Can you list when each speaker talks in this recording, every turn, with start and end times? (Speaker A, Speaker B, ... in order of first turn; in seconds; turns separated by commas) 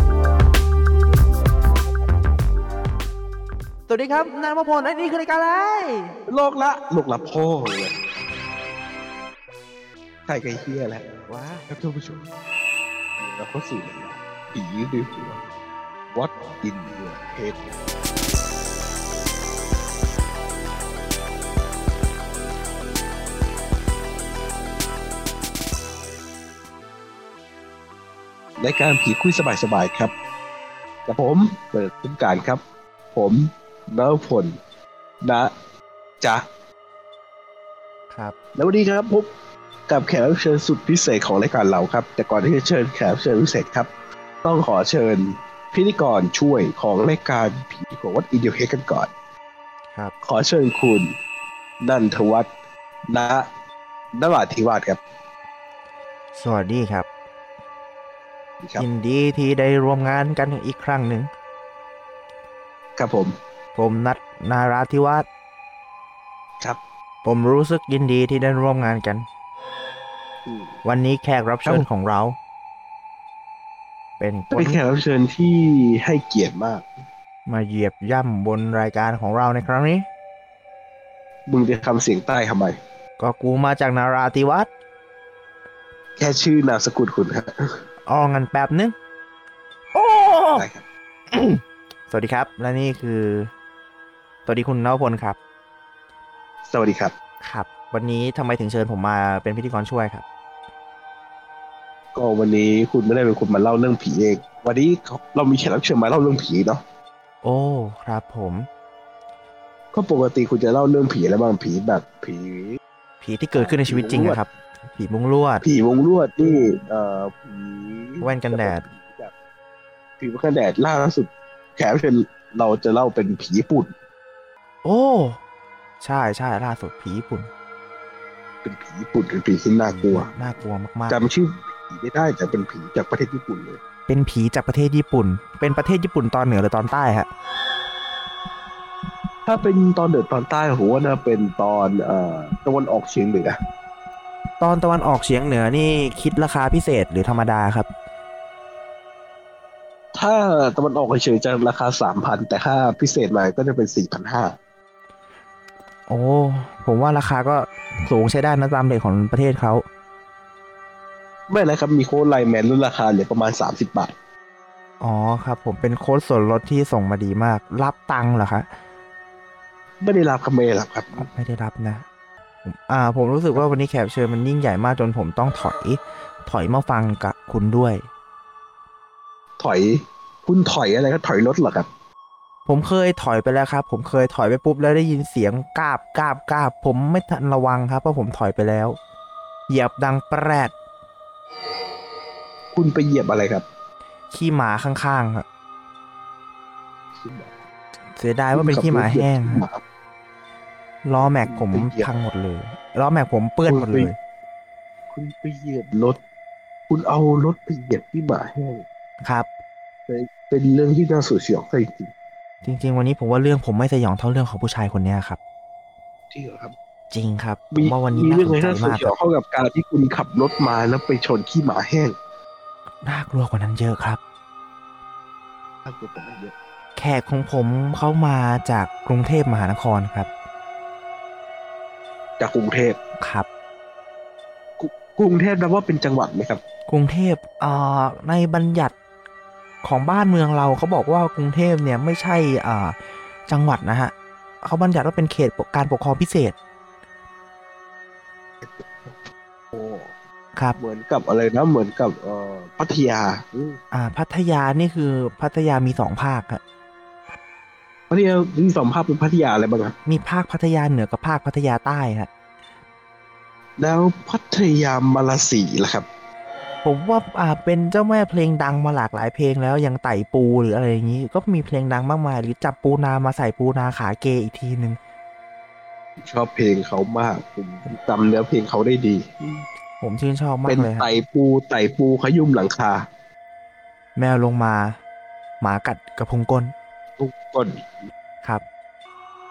Speaker A: 3.9-6.2, Speaker B: 6.3-8.0, Speaker B: 10.3-11.0, Speaker A: 11.3-11.7, Speaker B: 11.7-12.3, Speaker B: 13.2-15.4, Speaker B: 16.1-17.7, Speaker B: 28.6-30.1, Speaker B: 31.1-32.6, Speaker B: 33.1-34.6, Speaker B: 35.2-35.5, Speaker B: 38.5-39.3, Speaker B: 39.9-43.9, Speaker B: 44.4-49.1, Speaker B: 50.2-51.1, Speaker B: 51.8-52.5, Speaker B: 53.1-53.5, Speaker B: 54.2-55.0, Speaker A: 56.3-57.1, Speaker A: 58.8-61.3, Speaker B: 63.0-63.3, Speaker A: 63.8-65.2, Speaker A: 67.2-69.2, Speaker B: 70.5-70.7, Speaker A: 70.8-72.4, Speaker A: 74.2-74.8, Speaker B: 74.5-76.9, Speaker A: 77.5-80.0, Speaker B: 81.5-82.8, Speaker A: 83.2-84.7, Speaker B: 86.2-87.8, Speaker A: 88.0-88.9, Speaker A: 89.9-90.6, Speaker B: 90.5-90.8, Speaker A: 91.3-93.5, Speaker A: 94.5-95.4, Speaker B: 96.7-97.1, Speaker A: 97.4-100.2, Speaker B: 102.1-106.8, Speaker A: 107.4-108.7, Speaker B: 109.9-112.8, Speaker A: 113.2-115.6, Speaker B: 113.5-114.4, Speaker B: 115.6-119.3, Speaker A: 118.2-118.8, Speaker B: 120.2-123.9, Speaker A: 124.8-125.4, Speaker A: 126.0-127.5, Speaker B: 128.6-130.3, Speaker A: 130.0-131.2, Speaker B: 131.1-133.8, Speaker A: 134.1-137.3, Speaker B: 139.5-143.6, Speaker A: 144.6-147.9, Speaker B: 150.1-154.6, Speaker A: 156.1-159.8, Speaker B: 161.5-164.1, Speaker A: 165.0-168.7, Speaker B: 170.0-171.3, Speaker A: 171.2-172.0, Speaker A: 172.6-178.1, Speaker B: 179.6-181.9, Speaker A: 182.7-189.0, Speaker A: 189.7-190.7, Speaker B: 192.7-193.7, Speaker A: 194.3-195.4, Speaker B: 197.2-197.5, Speaker A: 198.2-199.7, Speaker B: 198.5-199.8, Speaker A: 201.0-204.2, Speaker B: 201.2-202.1, Speaker B: 203.7-204.1, Speaker B: 205.1-206.2, Speaker B: 206.9-208.8, Speaker A: 209.2-209.5, Speaker B: 210.1-212.1, Speaker A: 212.6-215.4, Speaker B: 216.3-216.7, Speaker A: 217.1-219.2, Speaker B: 217.7-222.2, Speaker A: 223.0-224.2, Speaker B: 225.9-226.5, Speaker A: 227.0-230.3, Speaker B: 232.4-233.0, Speaker A: 233.2-233.5, Speaker B: 234.8-236.6, Speaker A: 236.9-238.9, Speaker A: 239.8-246.6, Speaker B: 248.7-249.1, Speaker B: 249.7-250.1, Speaker B: 250.8-253.8, Speaker A: 253.9-256.6, Speaker B: 258.1-259.9, Speaker A: 260.1-262.3, Speaker B: 263.8-266.1, Speaker A: 266.8-275.0, Speaker B: 276.2-279.6, Speaker A: 280.0-281.1, Speaker B: 280.7-283.1, Speaker A: 284.1-285.0, Speaker A: 285.6-286.7, Speaker B: 287.2-287.8